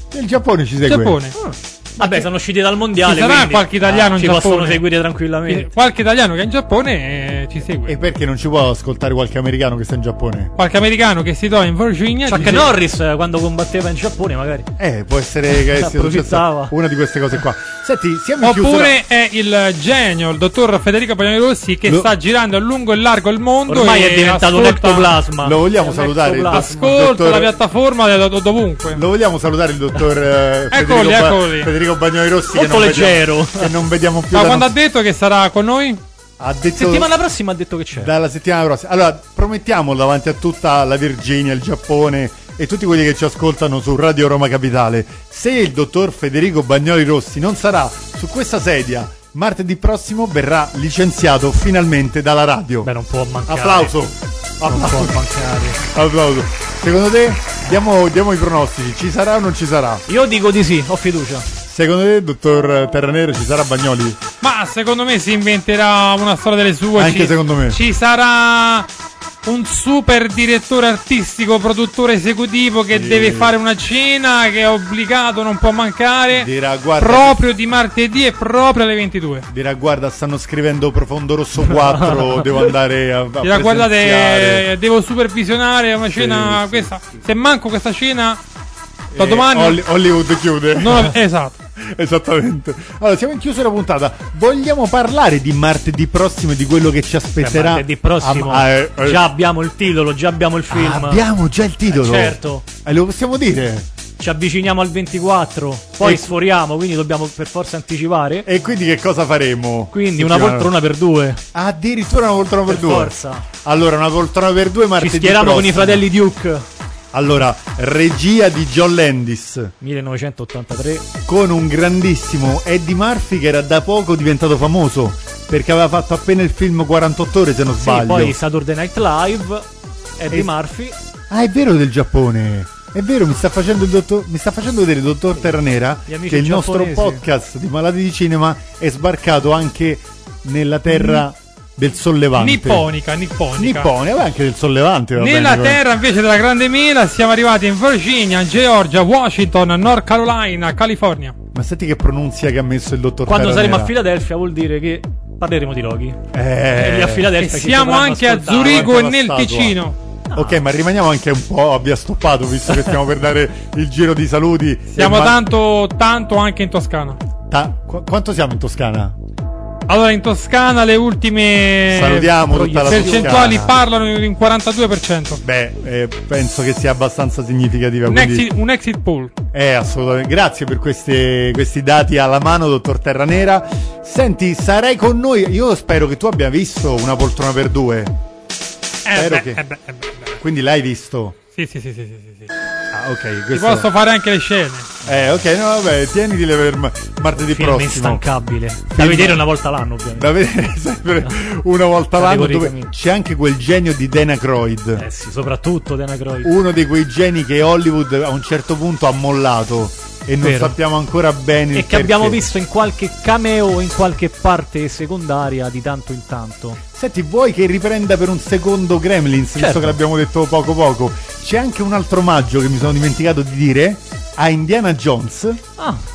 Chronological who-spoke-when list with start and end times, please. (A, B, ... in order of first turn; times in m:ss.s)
0:00.1-0:01.2 A
0:00.9-0:01.3 B
0:01.3-0:05.7 C
0:03.0-0:04.8 B
0:05.5-0:08.0 B
0:07.8-0:10.5 A
0:10.6-0:12.8 B
0:12.3-0:14.7 C
0:14.8-0:19.0 A
0:15.5-0:16.7 C
0:18.4-0:25.2 B
0:21.8-0:22.1 A
0:23.7-0:26.7 C
0:25.4-0:27.5 A
0:26.5-0:29.0 B
0:28.9-0:34.7 A
0:30.7-0:31.7 B
0:32.5-0:33.7 C
0:34.3-0:36.0 B
0:36.4-0:37.1 A
0:36.8-0:38.1 C
0:37.9-0:52.9 A
0:52.8-0:53.9 C
0:53.4-0:55.2 A
0:54.6-0:55.8 C
0:55.8-1:00.0 A
1:00.1-1:01.4 C
1:01.7-1:04.2 A
1:04.4-1:08.9 B
1:07.0-1:07.8 A
1:09.4-1:19.5 B
1:12.9-1:13.5 A
1:16.3-1:17.4 A
1:19.5-1:24.7 A
1:23.4-1:28.4 B
1:26.1-1:27.2 A
1:29.1-1:31.2 A
1:29.2-1:29.8 B
1:30.8-1:31.6 B
1:31.8-1:39.3 A
1:37.4-1:41.2 C
1:40.7-1:43.8 A
1:41.9-1:42.6 C
1:44.2-1:48.5 C
1:46.0-1:46.3 A
1:48.4-1:50.7 A
1:49.9-1:51.4 C
1:51.5-1:56.0 A
1:52.7-1:53.4 C
1:55.0-1:56.6 C
1:57.1-1:59.7 A
1:59.8-2:01.1 C
2:01.2-2:08.4 A
2:07.8-2:09.7 C
2:10.2-2:11.0 C
2:11.3-2:22.9 A
2:16.1-2:17.2 C
2:22.4-2:23.9 B
2:23.6-2:25.8 A
2:25.2-2:31.3 B
2:31.5-2:33.9 A
2:33.3-2:38.9 C
2:36.3-2:37.4 A
2:37.4-2:40.0 B
2:38.6-2:39.8 A
2:40.3-2:40.6 C
2:40.3-2:45.4 A
2:45.0-2:47.2 B
2:47.5-2:49.2 A
2:49.9-2:55.4 B
2:51.9-2:53.8 A
2:52.5-2:53.4 C
2:55.4-2:58.5 A
2:58.1-2:59.3 B
2:59.5-3:08.1 A
3:09.0-3:10.4 B
3:09.1-3:09.6 A
3:10.4-3:11.4 A
3:11.5-3:12.5 B
3:12.9-3:13.9 A
3:13.5-3:14.9 B
3:15.0-3:18.2 A
3:17.4-3:20.3 C
3:18.9-3:19.5 A
3:20.1-3:25.0 A
3:22.2-3:22.9 C
3:24.9-3:26.5 C
3:26.4-3:32.5 A
3:30.4-3:30.8 C
3:31.7-3:36.8 C
3:36.9-3:45.6 A
3:39.6-3:39.9 C